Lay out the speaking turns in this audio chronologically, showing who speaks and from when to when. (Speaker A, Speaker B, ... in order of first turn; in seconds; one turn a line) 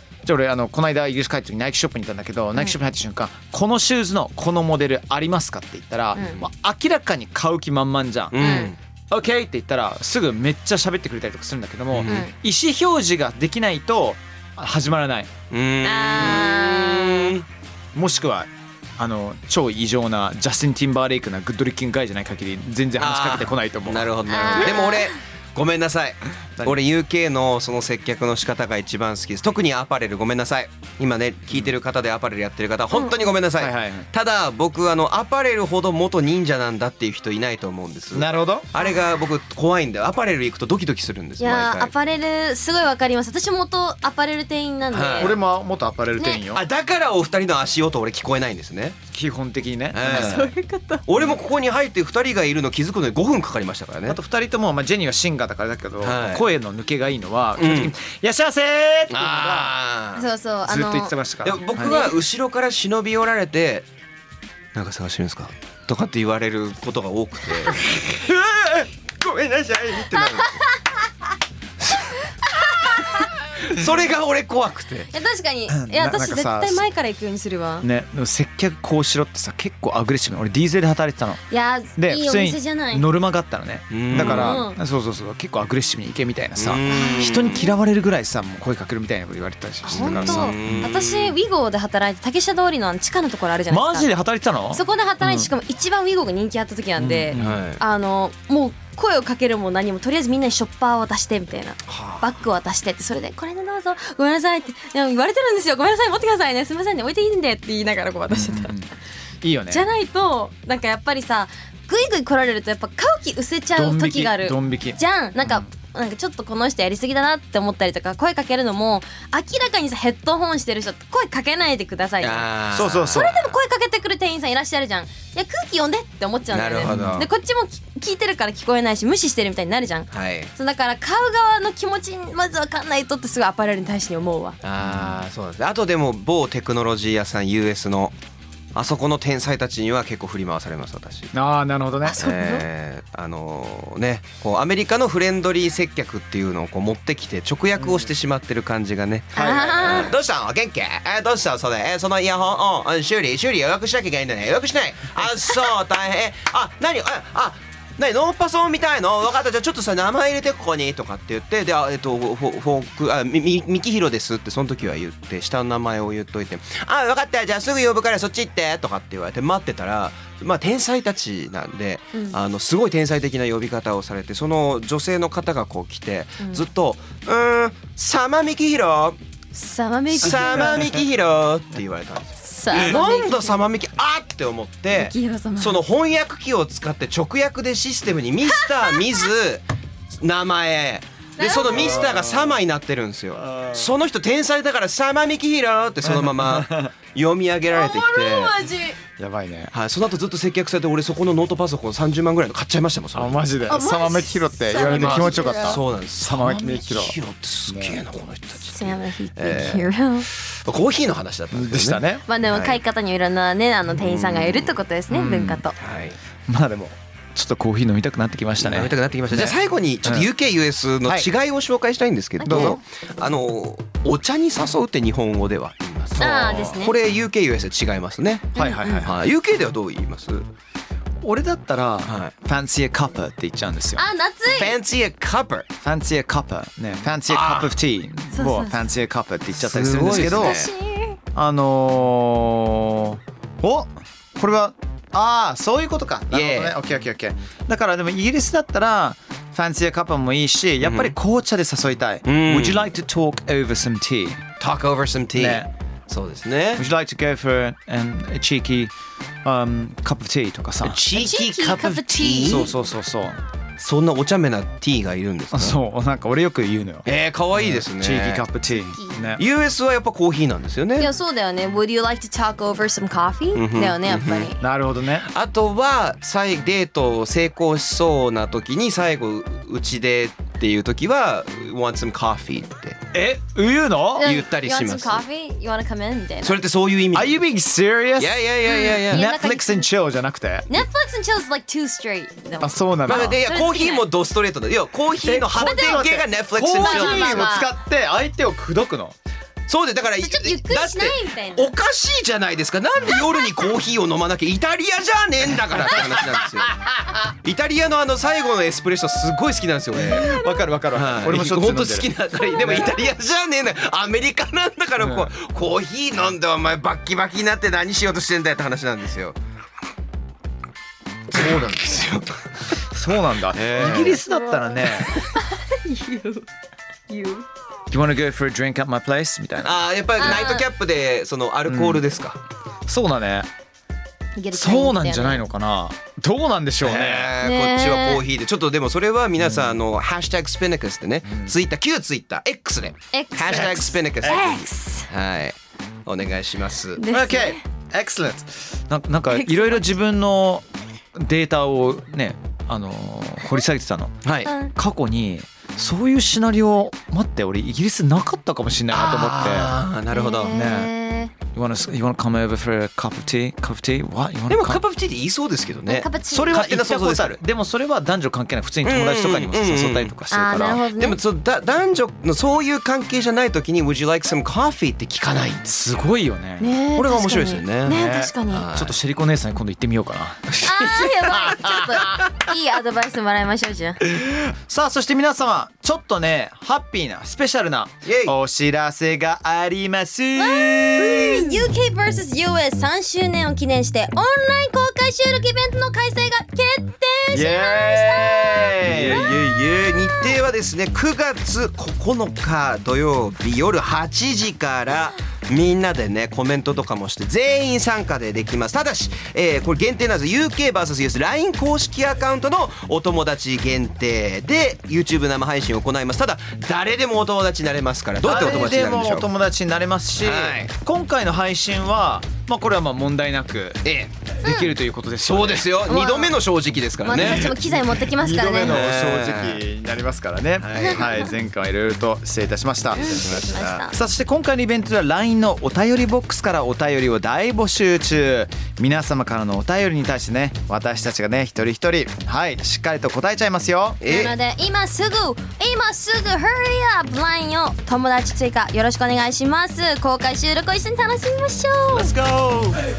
Speaker A: 0.2-15.3
Speaker B: 8.3-8.8
Speaker C: 8.4-8.7
Speaker B: 11.9-12.3
Speaker C: 12.0-12.3
Speaker B: 15.5-17.5
Speaker C: 15.8-17.3
Speaker A: 17.9-24.8
Speaker B: 23.0-41.9
Speaker C: 24.3-25.2
Speaker C: 32.9-33.4
Speaker A: 33.6-34.1
Speaker A: 38.1-38.7
Speaker C: 38.8-39.1
Speaker C: 41.4-45.4
Speaker B: 44.9-45.4
Speaker A: 45.2-46.6
Speaker B: 46.5-49.0
Speaker A: 49.1-50.5
Speaker B: 49.9-50.5
Speaker C: 50.1-51.0
Speaker B: 51.1-54.2
Speaker A: 54.1-59.7
Speaker B: 56.0-56.5
Speaker B: 57.6-57.9
Speaker B: 59.1-60.3
Speaker C: 60.2-61.1
Speaker A: 60.7-62.0
Speaker B: 61.4-63.9
Speaker C: 61.8-62.1
Speaker B: 64.8-67.8
Speaker A: 67.8-70.3
Speaker B: 69.4-70.6
Speaker C: 70.2-70.5
Speaker C: 72.4-73.3
Speaker B: 73.6-75.1
Speaker C: 75.1-77.9
Speaker A: 75.7-76.9
Speaker A: 77.8-81.4
Speaker C: 81.5-83.1
Speaker A: 82.0-90.9
Speaker B: 83.9-84.7
Speaker C: 84.1-84.8
Speaker B: 86.6-87.7
Speaker C: 86.9-87.7
Speaker C: 89.8-94.1
Speaker B: 89.9-91.4
Speaker A: 93.7-95.5
Speaker C: 94.7-108.7
Speaker A: 97.0-97.6
Speaker B: 97.3-97.8
Speaker B: 101.9-102.2
Speaker A: 108.3-108.9
Speaker A: 109.4-109.9
Speaker C: 109.7-122.5
Speaker A: 113.7-115.7
Speaker B: 122.2-123.5
Speaker A: 122.7-123.3
Speaker C: 123.1-134.6
Speaker B: 126.5-127.3
Speaker A: 126.9-127.3
Speaker B: 130.1-130.5
Speaker B: 134.6-138.2
Speaker B: 138.7-141.3
Speaker A: 141.3-142.2
Speaker C: 142.1-142.7
Speaker B: 142.2-179.2
Speaker A: 147.8-148.1
Speaker A: 149.3-150.1
Speaker C: 149.3-150.1
Speaker C: 179.5-181.0
Speaker B: 180.1-189.6
Speaker C: 182.4-183.6
Speaker C: 184.9-185.8
Speaker B: 190.2-198.5
Speaker C: 191.4-192.2
Speaker A: 191.7-192.6
Speaker A: 193.4-193.9
Speaker A: 196.0-196.9
Speaker C: 197.7-199.0
Speaker A: 199.2-199.7
Speaker B: 199.7-203.4
Speaker A: 203.2-207.2
Speaker C: 203.7-205.8
Speaker B: 204.7-212.8
Speaker A: 207.7-208.0
Speaker C: 208.7-210.3
Speaker A: 211.5-212.2
Speaker C: 212.3-215.8
Speaker B: 213.9-214.8
Speaker A: 215.1-215.6
Speaker B: 215.8-216.2
Speaker A: 216.5-220.3
Speaker B: 218.6-230.5
Speaker C: 222.4-222.8
Speaker A: 222.5-222.8
Speaker C: 226.2-226.9
Speaker C: 228.6-229.1
Speaker A: 228.6-229.2
Speaker A: 231.2-234.0
Speaker B: 232.1-232.3
Speaker C: 234.0-234.8
Speaker B: 234.5-235.7
Speaker A: 235.8-240.6
Speaker B: 237.3-237.8
Speaker C: 238.3-238.8
Speaker B: 239.6-240.7
Speaker C: 240.1-241.2
Speaker A: 241.3-254.4
Speaker B: 246.3-246.8
Speaker B: 250.8-251.2
Speaker B: 252.3-252.8
Speaker B: 254.6-256.8
Speaker A: 255.3-255.7
Speaker A: 256.8-261.0
Speaker B: 260.8-262.7
Speaker C: 261.1-262.7
Speaker A: 262.4-263.4
Speaker B: 263.8-265.8
Speaker A: 265.5-269.4
Speaker B: 267.1-268.4
Speaker C: 268.9-269.3
Speaker B: 269.4-271.1
Speaker C: 271.0-274.6
Speaker B: 273.5-274.5
Speaker A: 274.6-275.3
Speaker B: 275.3-283.0
Speaker A: 283.1-284.3
Speaker C: 284.2-286.6
Speaker B: 284.2-285.2
Speaker B: 286.4-287.4
Speaker A: 287.1-288.5
Speaker B: 288.2-289.3
Speaker C: 288.6-289.9
Speaker A: 289.1-290.7
Speaker C: 290.7-294.1
Speaker A: 292.6-293.4
Speaker B: 293.1-297.5
Speaker A: 295.2-299.2
Speaker C: 295.2-296.1
Speaker C: 296.8-297.7
Speaker B: 299.7-306.8
Speaker C: 300.2-301.7
Speaker A: 306.7-307.2
Speaker B: 307.4-310.4
Speaker A: 309.9-313.0
Speaker C: 310.2-310.5
Speaker B: 310.9-319.4
Speaker A: 315.0-315.3
Speaker B: 321.3-322.8
Speaker A: 321.3-321.8
Speaker A: 322.9-325.2
Speaker B: 323.5-324.2
Speaker C: 323.8-326.5
Speaker C: 327.1-327.5
Speaker A: 327.9-330.4
Speaker B: 329.6-332.4
Speaker C: 330.2-330.6
Speaker A: 331.7-332.0
Speaker A: 332.9-333.5
Speaker C: 334.4-335.4
Speaker A: 334.5-337.4
Speaker B: 336.8-347.0
Speaker C: 337.4-338.2
Speaker A: 339.4-339.8
Speaker C: 343.1-345.1
Speaker A: 344.2-344.6
Speaker C: 347.0-347.6
Speaker A: 347.1-354.2
Speaker C: 349.3-349.9
Speaker B: 354.2-354.5
Speaker C: 354.5-354.7
Speaker A: 354.7-359.8
Speaker B: 358.9-360.6
Speaker C: 360.1-361.3
Speaker A: 360.5-360.9
Speaker A: 361.5-364.8
Speaker B: 364.5-367.4
Speaker C: 365.9-366.6
Speaker A: 366.3-370.8
Speaker B: 368.8-370.1
Speaker C: 370.3-371.2
Speaker B: 370.9-375.7
Speaker A: 375.6-376.7
Speaker C: 376.6-378.7
Speaker B: 376.9-378.9
Speaker A: 377.9-380.6
Speaker B: 380.5-382.2
Speaker C: 380.6-384.0
Speaker A: 384.1-391.6
Speaker B: 388.1-388.4
Speaker C: 390.4-400.4
Speaker A: 397.3-399.4
Speaker B: 398.8-419.3
Speaker A: 418.2-423.8
Speaker B: 420.2-420.7
Speaker B: 423.9-424.1
Speaker C: 424.4-424.7
Speaker A: 424.4-425.8
Speaker B: 425.2-427.9
Speaker C: 425.9-426.4
Speaker C: 427.0-428.8
Speaker A: 427.2-427.5
Speaker A: 428.1-433.4
Speaker B: 428.6-429.6
Speaker B: 430.6-431.2
Speaker C: 430.8-431.3
Speaker B: 433.0-433.9
Speaker C: 433.0-434.0
Speaker A: 433.9-444.0
Speaker B: 444.0-444.4
Speaker C: 444.1-452.1
Speaker B: 451.9-452.8